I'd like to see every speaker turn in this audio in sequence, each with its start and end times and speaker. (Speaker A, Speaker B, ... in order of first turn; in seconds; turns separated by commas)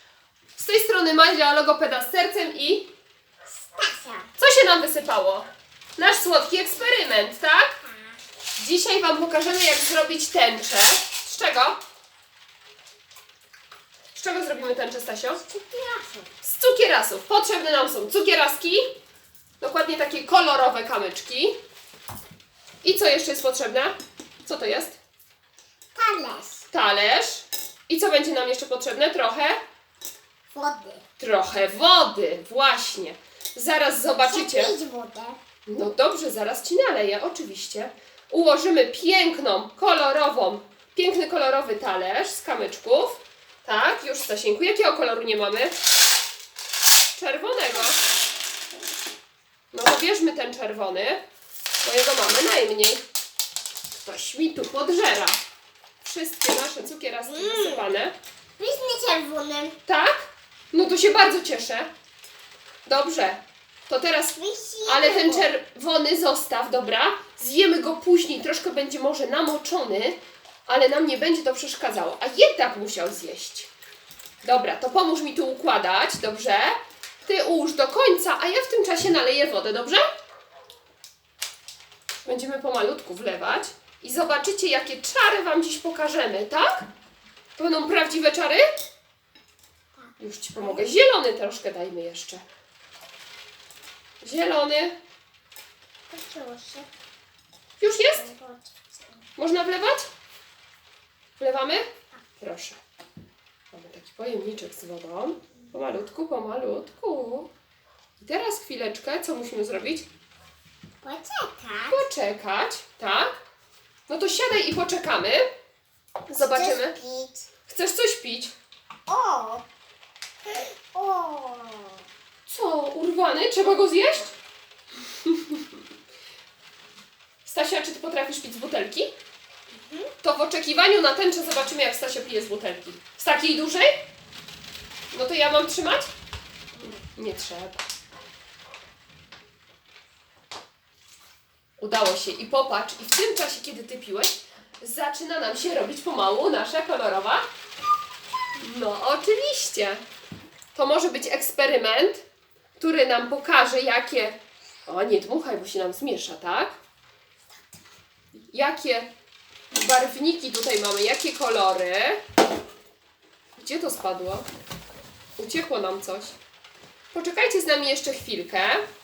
Speaker A: 0.6-2.9, Speaker B: 3.6-4.3, Speaker A: 4.4-7.8, Speaker A: 8.6-11.8, Speaker A: 14.1-15.4, Speaker B: 15.4-16.3, Speaker A: 16.4-18.8, Speaker A: 19.6-21.6, Speaker A: 22.8-25.0, Speaker B: 25.9-26.6, Speaker A: 26.7-29.6, Speaker B: 30.5-31.0, Speaker A: 31.2-34.7, Speaker B: 34.2-35.4, Speaker A: 35.7-45.8, Speaker A: 47.1-48.0, Speaker A: 49.7-51.2, Speaker A: 51.8-53.0, Speaker A: 54.0-55.4, Speaker A: 56.0-58.1, Speaker B: 57.3-57.8, Speaker B: 58.6-59.8, Speaker A: 59.9-61.9, Speaker A: 62.9-73.7, Speaker B: 64.3-65.5, Speaker A: 74.4-80.0, Speaker A: 82.2-86.8, Speaker A: 87.5-88.6, Speaker B: 90.0-90.9, Speaker A: 90.2-92.4, Speaker A: 94.2-94.9, Speaker B: 96.1-96.9, Speaker A: 97.8-98.3, Speaker B: 97.8-98.9, Speaker A: 99.3-100.1, Speaker A: 101.4-101.8, Speaker A: 102.4-102.8, Speaker A: 103.7-107.5, Speaker A: 108.2-110.1, Speaker B: 111.0-112.1, Speaker A: 111.9-113.3, Speaker A: 114.1-115.5, Speaker A: 116.3-116.9, Speaker B: 116.3-117.5, Speaker A: 117.7-118.5, Speaker B: 119.1-119.6, Speaker B: 120.5-122.0, Speaker A: 122.5-124.3, Speaker A: 125.2-125.6, Speaker A: 127.4-129.1, Speaker B: 129.7-130.1, Speaker A: 130.2-133.9, Speaker A: 135.1-136.1, Speaker A: 136.9-137.8, Speaker A: 141.8-147.4, Speaker A: 148.6-150.0, Speaker A: 150.7-152.2, Speaker A: 152.8-156.8, Speaker A: 158.5-159.1, Speaker A: 159.7-162.2, Speaker A: 163.6-164.4, Speaker A: 165.4-166.3, Speaker A: 167.1-168.8